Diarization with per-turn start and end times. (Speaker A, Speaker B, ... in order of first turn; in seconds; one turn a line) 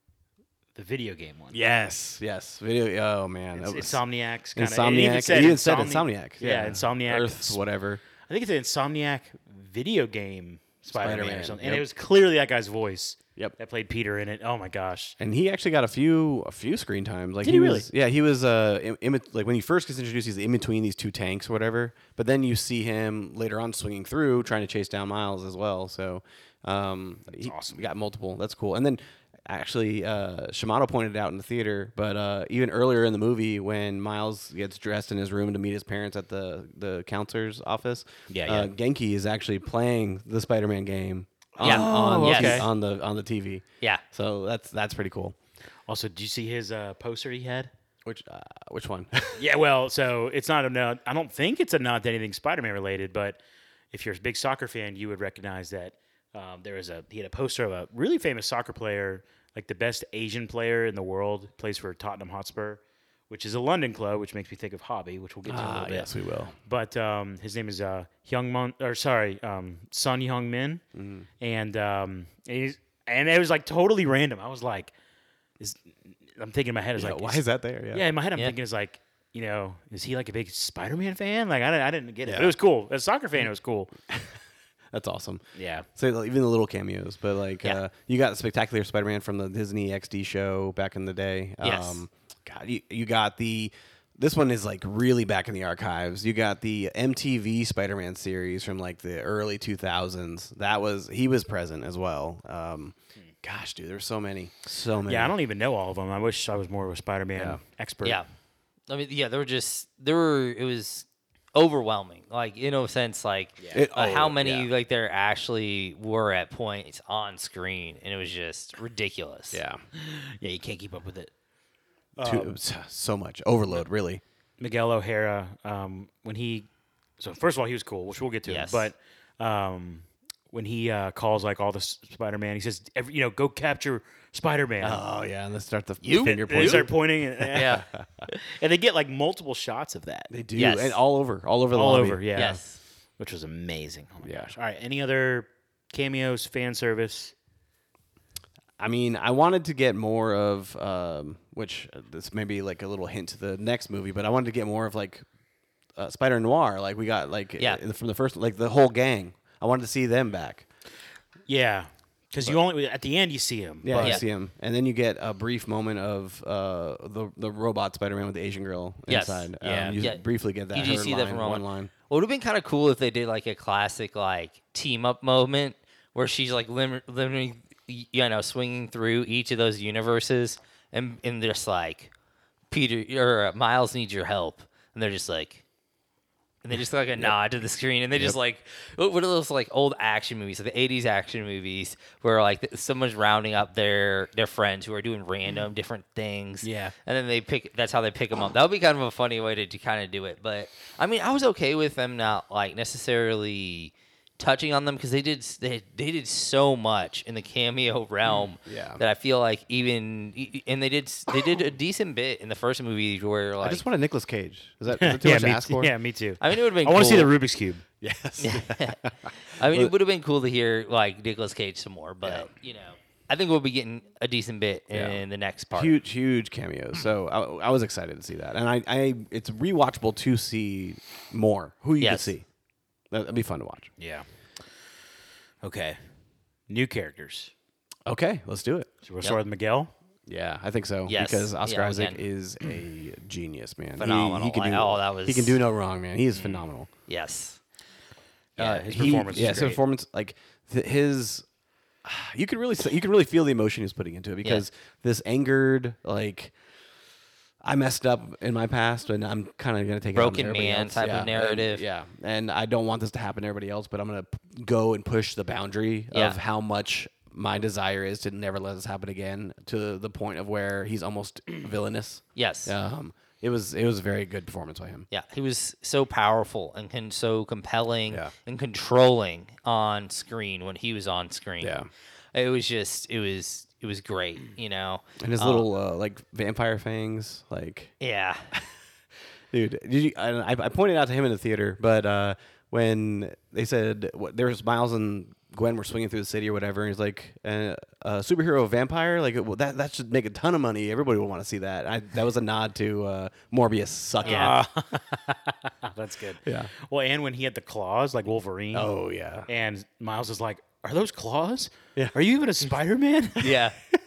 Speaker A: 0.8-1.6
Speaker B: 1.5-4.0
Speaker A: 3.5-7.6
Speaker B: 4.5-8.0
Speaker A: 8.3-15.2
Speaker B: 10.9-11.8
Speaker B: 15.2-45.4
Speaker A: 17.4-17.9
Speaker A: 27.4-27.9
Speaker A: 38.3-38.7
Speaker A: 41.6-42.7
Speaker C: 41.6-42.7
Speaker A: 45.9-47.7
Speaker B: 48.0-49.4
Speaker A: 49.4-53.4
Speaker A: 53.9-66.1
Speaker B: 65.5-66.5
Speaker A: 66.7-70.8
Speaker B: 71.0-71.3
Speaker A: 71.4-74.9
Speaker A: 75.6-83.9
Speaker B: 77.0-78.1
Speaker B: 82.2-82.5
Speaker B: 84.1-84.4
Speaker B: 84.9-85.4
Speaker A: 85.6-85.9
Speaker B: 86.0-105.3
Speaker C: 91.6-92.0
Speaker A: 105.1-108.2
Speaker C: 108.9-119.6
Speaker A: 113.6-113.8
Speaker B: 113.7-114.7
Speaker B: 119.5-119.8
Speaker A: 119.9-121.3
Speaker A: 122.2-122.6
Speaker B: 122.2-124.2
Speaker A: 124.6-126.7
Speaker A: 127.2-135.0
Speaker C: 128.5-128.9
Speaker B: 134.8-138.3
Speaker C: 136.0-136.9
Speaker A: 136.2-140.3
Speaker C: 137.5-137.8
Speaker B: 140.3-142.6
Speaker C: 140.6-141.0
Speaker A: 141.7-147.3
Speaker C: 142.3-142.8
Speaker B: 144.2-144.5
Speaker B: 148.8-155.3
Speaker B: 156.0-160.7
Speaker A: 161.5-164.2
Speaker B: 163.8-171.9
Speaker C: 169.1-170.2
Speaker A: 169.6-170.0
Speaker C: 170.7-182.1
Speaker C: 182.7-185.6
Speaker C: 186.6-213.8
Speaker A: 196.6-196.9
Speaker B: 208.7-209.0
Speaker B: 213.6-215.9
Speaker A: 215.0-217.8
Speaker C: 216.4-217.3
Speaker B: 218.0-219.9
Speaker C: 218.4-219.0
Speaker C: 219.5-225.9
Speaker B: 222.2-222.5
Speaker B: 224.9-225.2
Speaker B: 225.7-232.5
Speaker C: 232.0-232.3
Speaker B: 233.1-233.9
Speaker A: 234.0-234.3
Speaker A: 235.6-236.0
Speaker A: 236.7-237.5
Speaker B: 238.1-238.9
Speaker A: 239.0-239.9
Speaker B: 240.3-246.9
Speaker C: 241.1-242.2
Speaker C: 244.0-245.6
Speaker A: 246.4-246.6
Speaker C: 247.1-247.6
Speaker A: 248.6-249.8
Speaker B: 248.6-251.4
Speaker B: 252.0-256.5
Speaker B: 257.6-275.1
Speaker C: 260.1-261.8
Speaker C: 266.1-266.4
Speaker C: 272.4-272.7
Speaker C: 275.1-281.7
Speaker B: 281.6-281.9
Speaker C: 282.3-285.7
Speaker B: 285.2-287.9
Speaker C: 288.0-288.5
Speaker B: 289.5-304.6
Speaker A: 304.2-308.9
Speaker C: 304.3-304.6
Speaker B: 306.5-306.7
Speaker B: 308.7-309.5
Speaker A: 309.5-313.7
Speaker B: 313.4-313.7